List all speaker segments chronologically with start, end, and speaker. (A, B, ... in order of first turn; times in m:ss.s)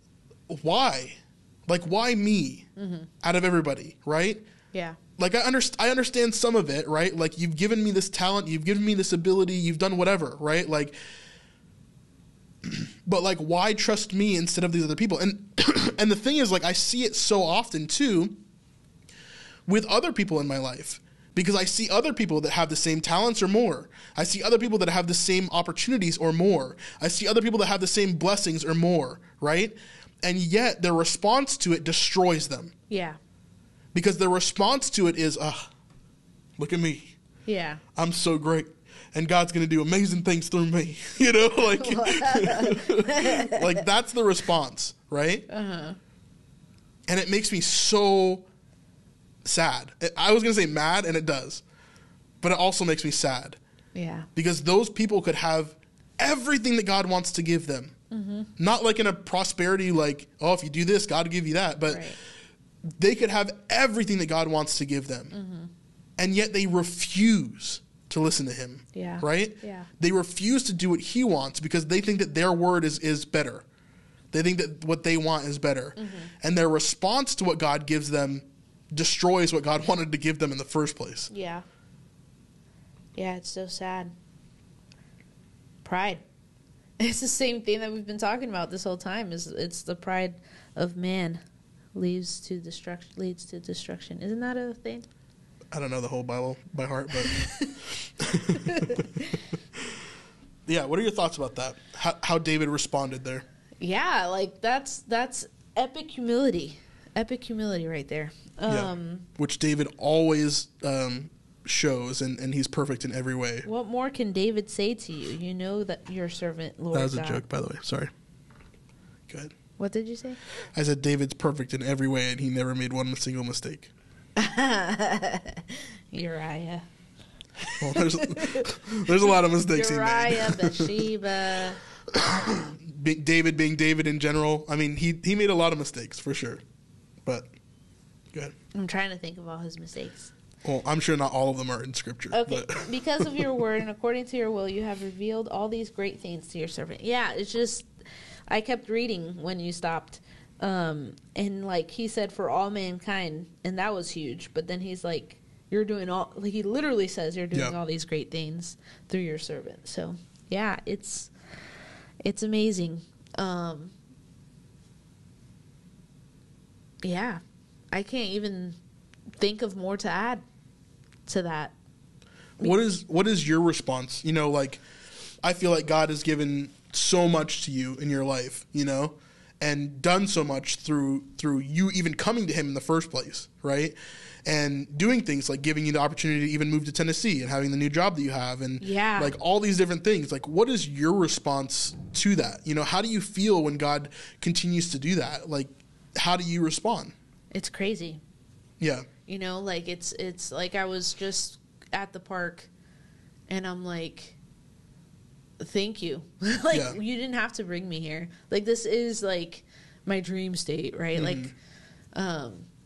0:00.5-0:02.7 A
0:02.8-0:03.1 B
0:03.2-0:04.4 A
0:04.7-0:05.0 B
0:05.2-0:11.0 A
0:12.6-0:18.4 A
0:19.7-0:32.7 A
0:32.9-0:33.2 B
0:33.9-0:35.7 A
0:36.6-0:37.2 A
0:37.4-0:37.8 B
0:38.0-0:45.5 A
0:41.7-0:43.6 B
0:45.5-0:46.0 B
0:47.1-0:48.5 A
0:49.4-0:51.6 A
0:52.4-0:53.6 A
0:54.0-0:54.3 B
0:54.4-0:57.9 A
0:58.1-0:58.5 B
0:58.6-1:02.1 A
1:01.9-1:02.2 B
1:03.0-1:05.3 A
1:05.3-1:05.7 B
1:06.2-1:13.6 A
1:08.9-1:09.9 B
1:14.3-1:21.3 A
1:16.0-1:16.3 B
1:21.3-1:21.6 B
1:23.2-1:24.1 B
1:25.8-1:26.2 B
1:27.0-1:31.4 B
1:32.0-1:35.1 B
1:35.7-1:37.4 A
1:37.2-1:37.7 B
1:38.2-1:39.0 A
1:38.6-1:39.3 B
1:40.7-1:43.4 A
1:43.8-1:49.3 B
1:48.7-1:53.7 A
1:53.6-1:57.4 B
1:56.9-1:58.1 A
1:59.8-2:00.4 B
2:00.7-2:03.9 A
2:04.4-2:06.8 B
2:07.6-2:08.7 B
2:07.8-2:10.9 A
2:09.3-2:11.8 B
2:12.1-2:16.6 A
2:18.7-2:20.3 B
2:20.6-2:23.5 A
2:22.3-2:27.9 B
2:28.5-2:41.3 B
2:42.2-2:43.9 B
2:47.0-2:47.4 B
2:47.9-2:48.8 B
2:49.4-2:50.4 B
2:51.3-2:51.8 B
2:52.6-2:54.8 A
2:55.4-3:17.2 A
3:08.8-3:09.3 B
3:17.5-3:18.2 B
3:18.8-3:19.1 A
3:19.2-3:22.7 B
3:23.5-3:24.4 B
3:25.6-3:31.5 B
3:26.7-3:27.0 A
3:31.1-3:31.5 A
3:32.1-3:32.7 B